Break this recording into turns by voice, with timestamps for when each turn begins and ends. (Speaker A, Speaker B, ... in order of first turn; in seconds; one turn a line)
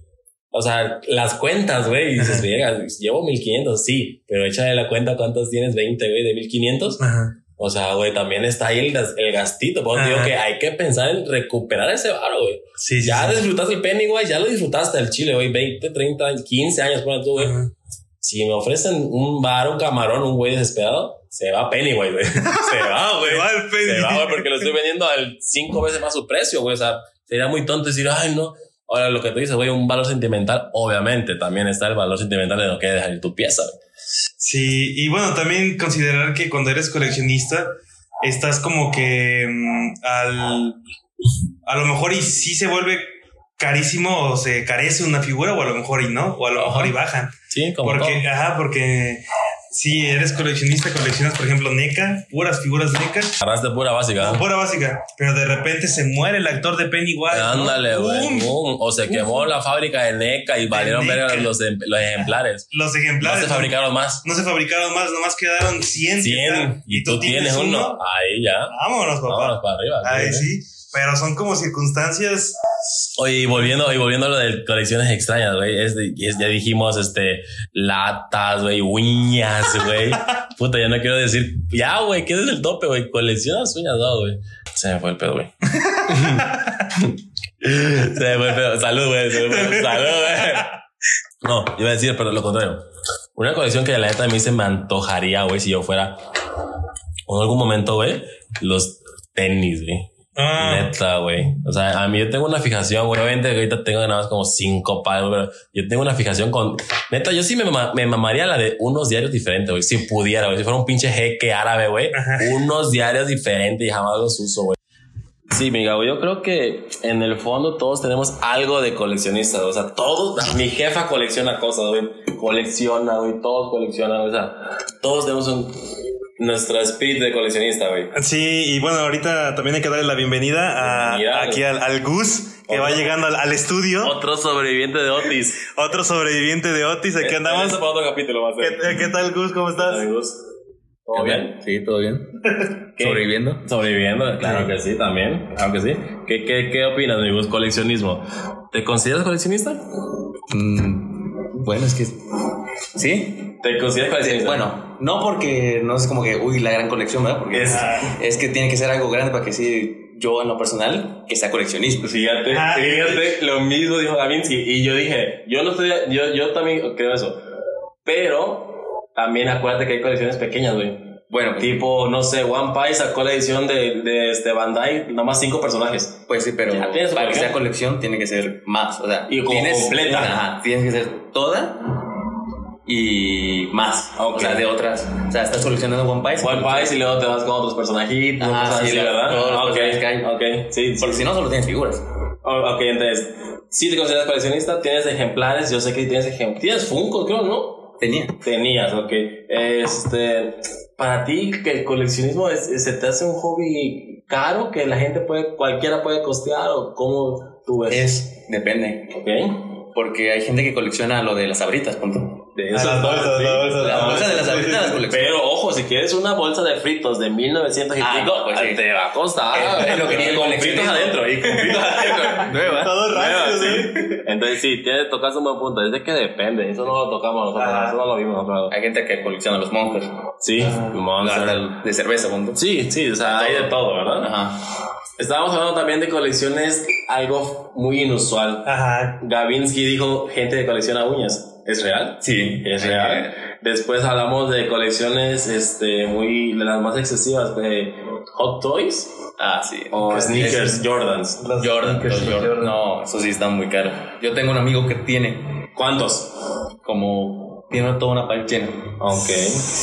Speaker A: 0.5-7.0
Speaker B: 2.2-2.5
Speaker B: 7.0-7.3
Speaker A: 7.6-17.6
Speaker B: 9.9-10.3
Speaker B: 12.8-13.4
Speaker B: 17.4-17.7
Speaker A: 18.2-33.8
Speaker B: 22.4-24.7
Speaker B: 34.4-37.7
Speaker B: 38.2-40.8
Speaker B: 41.6-53.4
Speaker A: 46.5-47.0
Speaker A: 47.5-48.3
Speaker A: 53.4-54.4
Speaker B: 54.2-58.5
Speaker A: 57.3-62.7
Speaker B: 59.1-59.5
Speaker B: 60.7-61.5
Speaker B: 62.7-68.0
Speaker A: 63.2-64.2
Speaker A: 66.2-70.5
Speaker B: 68.7-72.6
Speaker A: 73.2-85.5
Speaker B: 85.8-86.9
Speaker A: 86.1-90.7
Speaker B: 89.4-90.7
Speaker A: 91.4-96.2
Speaker A: 97.2-114.8
Speaker B: 100.3-100.9
Speaker B: 112.1-112.5
Speaker A: 115.5-128.1
Speaker B: 128.1-134.1
Speaker A: 130.7-131.6
Speaker A: 132.7-133.1
Speaker A: 134.0-135.7
Speaker B: 135.6-137.8
Speaker A: 137.2-139.1
Speaker B: 138.6-140.0
Speaker A: 139.8-140.4
Speaker A: 141.1-141.6
Speaker C: 141.1-142.4
Speaker C: 142.9-143.6
Speaker A: 143.0-149.8
Speaker C: 150.5-152.2
Speaker C: 152.9-153.6
Speaker A: 153.6-154.7
Speaker C: 154.2-162.1
Speaker A: 157.5-158.1
Speaker B: 157.7-158.1
Speaker A: 162.0-167.4
Speaker B: 162.5-163.3
Speaker A: 168.0-177.6
Speaker C: 171.3-171.8
Speaker C: 176.3-182.0
Speaker A: 179.3-180.4
Speaker C: 182.8-186.9
Speaker A: 184.2-184.6
Speaker A: 186.4-191.2
Speaker C: 188.4-190.3
Speaker C: 191.0-192.0
Speaker A: 192.4-208.1
Speaker C: 198.0-198.4
Speaker C: 207.9-209.1
Speaker A: 209.1-209.7
Speaker C: 209.9-215.3
Speaker A: 212.6-228.7
Speaker B: 212.7-215.0
Speaker C: 218.0-218.8
Speaker C: 219.5-224.1
Speaker B: 222.6-224.2
Speaker B: 227.6-228.0
Speaker C: 228.7-232.6
Speaker A: 230.4-231.6
Speaker B: 230.6-231.0
Speaker A: 232.5-234.3
Speaker C: 233.3-234.6
Speaker A: 235.2-249.3
Speaker B: 238.6-239.2
Speaker C: 242.2-243.3
Speaker C: 249.4-250.8
Speaker A: 249.9-251.5
Speaker B: 250.1-250.7
Speaker B: 251.4-252.8
Speaker C: 251.6-255.7
Speaker A: 255.8-256.3
Speaker C: 256.8-259.3
Speaker A: 259.0-259.7